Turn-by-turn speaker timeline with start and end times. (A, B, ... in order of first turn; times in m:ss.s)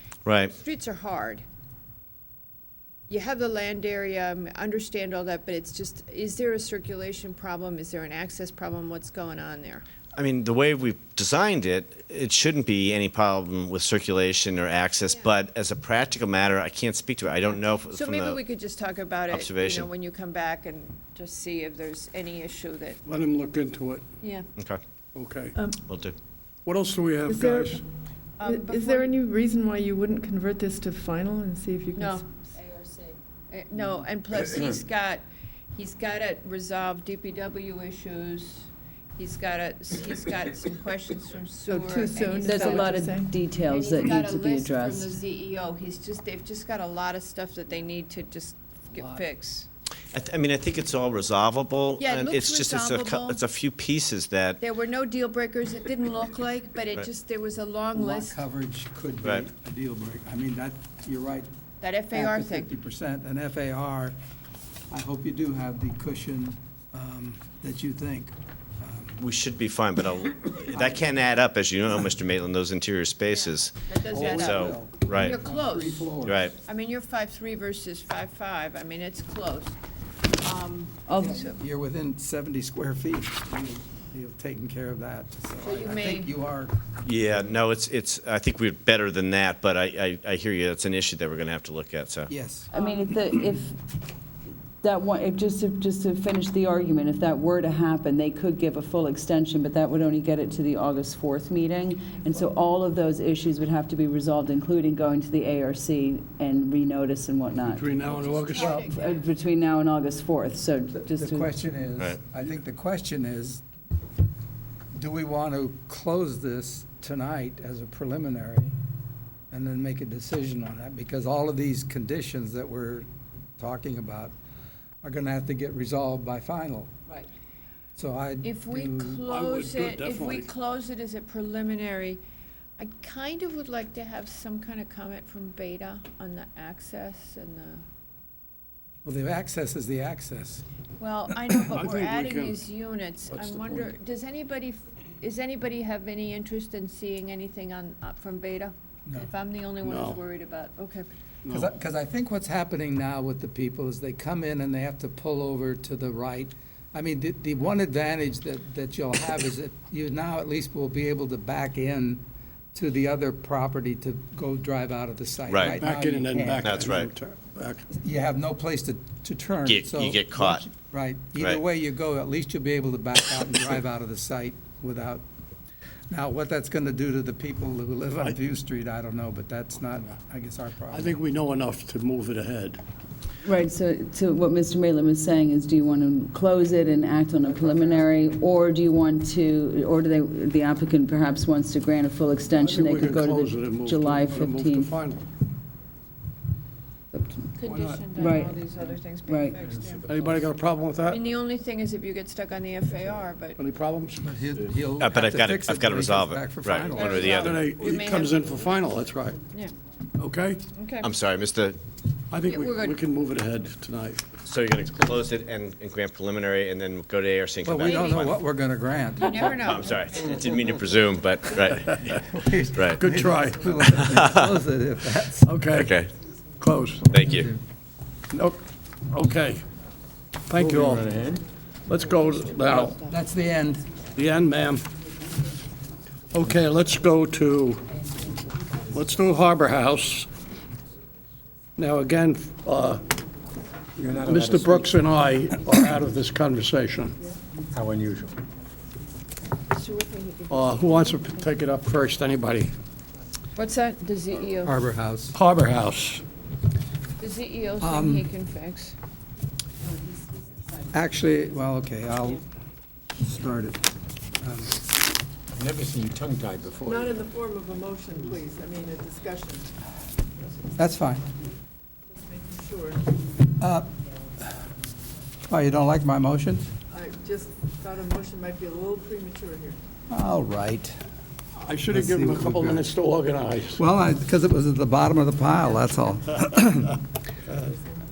0:00.3-0:00.5 A
0:00.3-0:01.4 B
0:03.1-0:09.8 B
0:10.2-0:18.4 A
0:17.5-0:23.0 B
0:19.3-0:19.9 A
0:23.1-0:24.0 C
0:24.2-0:24.5 B
0:25.2-0:25.6 C
0:25.9-0:26.2 A
0:26.7-0:27.8 C
0:27.3-0:27.8 D
0:28.4-0:29.2 B
0:28.4-0:32.3 D
0:31.9-0:43.1 B
0:41.6-0:43.3 D
0:42.5-0:45.1 E
0:43.6-0:49.7 B
0:50.1-0:54.6 A
0:52.0-0:53.4 B
0:54.6-0:58.4 B
0:58.0-1:01.5 F
1:01.8-1:02.7 B
1:02.1-1:04.2 F
1:04.9-1:09.2 F
1:09.2-1:15.4 A
1:10.7-1:11.2 F
1:13.3-1:16.1 B
1:14.1-1:16.5 F
1:16.2-1:16.6 A
1:16.6-1:19.8 B
1:20.4-1:21.6 B
1:21.1-1:21.4 E
1:21.2-1:26.8 F
1:25.6-1:26.3 B
1:27.0-1:32.3 A
1:32.3-1:32.7 F
1:32.7-1:33.8 E
1:34.8-1:51.6 E
1:47.6-1:48.8 C
1:48.2-1:49.2 B
1:51.0-1:53.6 F
1:54.9-1:58.8 F
1:59.5-2:03.1 F
2:03.6-2:04.3 F
2:05.0-2:06.9 F
2:08.0-2:09.2 F
2:08.4-2:12.2 B
2:09.3-2:10.5 C
2:12.8-2:17.8 B
2:19.0-2:20.6 F
2:21.0-2:31.1 B
2:21.7-2:22.6 C
2:23.3-2:23.9 C
2:29.8-2:30.2 C
2:31.4-2:31.7 C
2:31.5-2:42.2 F
2:42.7-2:47.0 F
2:45.5-2:45.8 A
2:45.6-2:47.9 C
2:46.6-2:47.1 A
2:47.9-2:55.2 F
2:49.7-2:50.7 A
2:56.1-3:01.2 F
3:00.9-3:02.8 C
3:03.4-3:14.9 E
3:07.4-3:08.2 C
3:12.5-3:15.2 C
3:17.1-3:17.5 E
3:17.6-3:20.1 B
3:17.7-3:18.0 F
3:18.2-3:18.6 E
3:19.3-3:19.6 E
3:20.1-3:21.2 C
3:21.0-3:23.6 B
3:23.6-3:24.2 C
3:24.2-3:27.5 F
3:25.0-3:27.6 A
3:26.9-3:28.8 B
3:27.2-3:29.4 C
3:30.2-3:30.6 C
3:30.7-3:31.1 B
3:31.0-3:31.8 A
3:32.3-3:34.2 C
3:32.4-3:33.0 B
3:34.4-3:38.4 A
3:37.6-3:39.8 F
3:37.8-3:38.3 B
3:39.2-3:40.4 B
3:39.6-3:42.2 A
3:42.1-3:45.6 F
3:42.8-3:43.0 A
3:43.0-3:43.8 C
3:44.0-3:44.6 A
3:45.4-3:46.0 C
3:45.7-3:46.1 A
3:46.6-3:47.1 C
3:47.1-3:47.5 A
3:47.2-3:47.6 F
3:48.3-3:49.6 C
3:50.5-3:51.1 C
3:50.6-3:51.4 G
3:51.9-3:53.0 C
3:52.7-3:53.9 F
3:54.2-3:54.8 C
3:56.3-3:57.9 C
3:58.9-4:00.3 C
4:01.8-4:03.0 C
4:04.0-4:05.0 G
4:04.2-4:07.2 C
4:07.7-4:08.3 G
4:09.7-4:11.4 B
4:10.5-4:12.8 C
4:13.6-4:14.8 B
4:14.6-4:15.4 F
4:15.3-4:16.2 C
4:17.2-4:19.0 B
4:17.8-4:18.3 F
4:20.9-4:22.4 F
4:23.2-4:23.9 F
4:24.4-4:24.8 F
4:25.5-4:27.1 G
4:26.9-4:29.7 D
4:30.8-4:31.2 F
4:32.1-4:33.0 D
4:33.6-4:33.9 F
4:35.5-4:36.7 F
4:36.9-4:39.8 D
4:40.1-4:41.0 F
4:41.6-4:43.8 C
4:41.9-4:42.9 F
4:43.8-4:47.0 F